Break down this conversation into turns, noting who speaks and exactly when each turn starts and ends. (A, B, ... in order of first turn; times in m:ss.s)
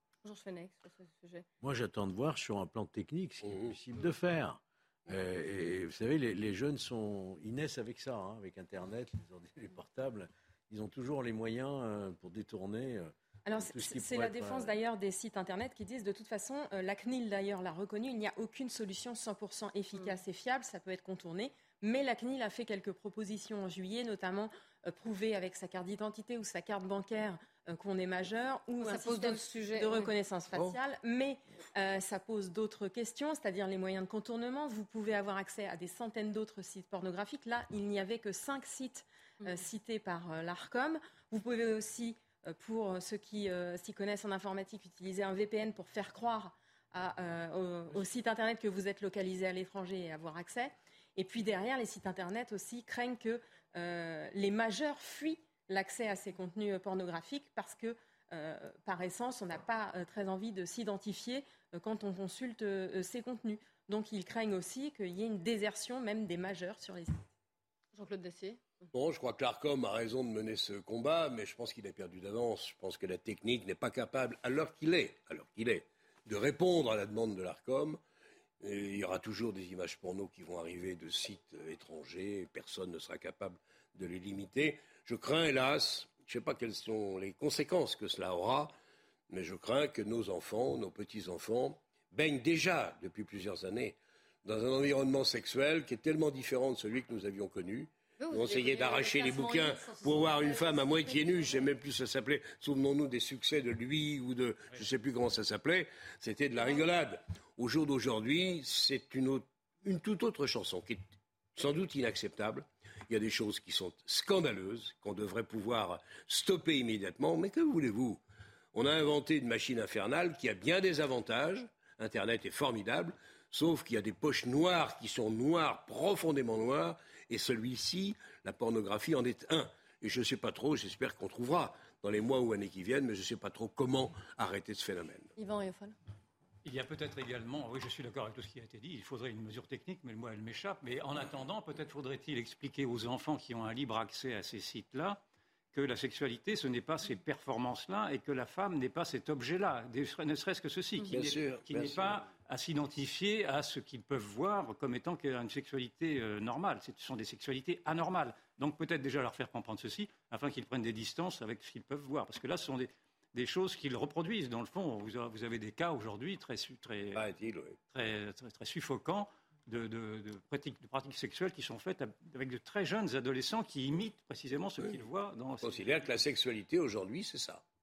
0:00.2-0:01.4 A
0:01.6-0:14.7 B
0:03.4-0:03.7 C
0:13.4-1:07.2 D
0:28.8-0:30.0 A
1:07.9-1:08.9 A
1:08.9-1:18.0 C
1:18.6-1:28.7 C
1:29.3-1:58.2 C
1:38.2-1:41.7 A
1:46.6-1:46.8 A
1:58.7-2:15.3 C
2:15.4-2:16.0 A
2:16.6-2:25.2 E
2:25.7-2:47.2 E
2:31.1-2:32.1 C
2:47.1-2:47.8 C
2:47.9-2:56.1 E
2:55.6-2:57.6 C